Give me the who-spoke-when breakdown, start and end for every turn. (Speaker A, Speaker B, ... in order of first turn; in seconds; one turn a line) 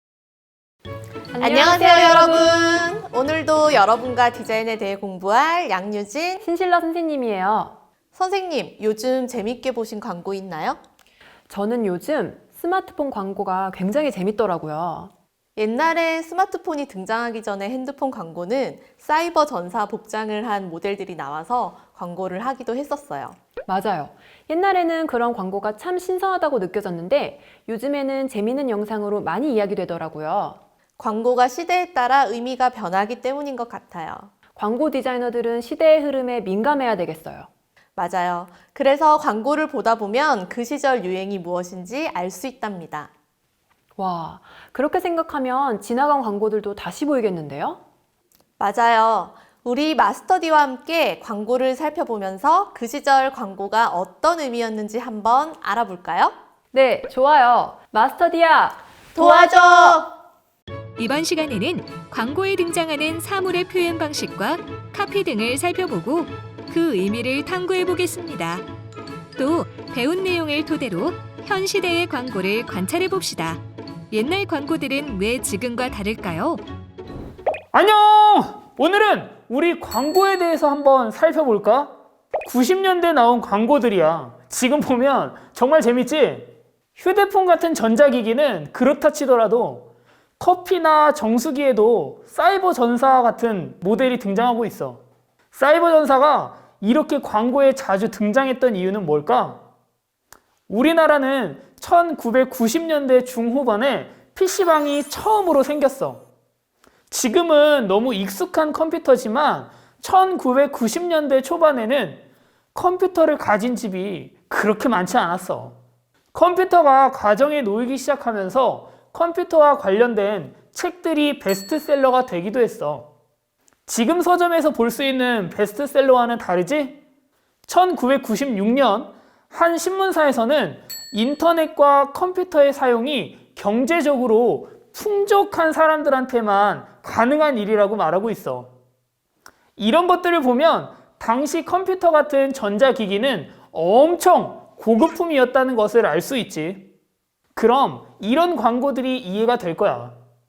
Speaker A: 1.3-2.7
Speaker B: 1.4-6.4
Speaker A: 6.4-7.8
Speaker B: 8.1-10.8
Speaker A: 11.5-15.1
Speaker B: 15.6-23.4
Speaker A: 23.7-30.6
Speaker B: 31.0-34.3
Speaker A: 34.5-37.5
Speaker B: 38.0-43.1
Speaker A: 44.0-47.8
Speaker B: 48.6-56.3
Speaker A: 56.7-59.5
Speaker B: 59.1-60.1
Speaker C: 61.0-68.6
Speaker C: 69.3-76.6
Speaker D: 77.7-95.0
Speaker D: 95.5-99.6
Speaker D: 100.7-106.2
Speaker D: 107.1-112.2
Speaker D: 112.7-115.8
Speaker D: 116.3-123.1
Speaker D: 123.9-127.0
Speaker D: 127.7-138.7
Speaker D: 139.8-146.9
Speaker D: 147.6-150.2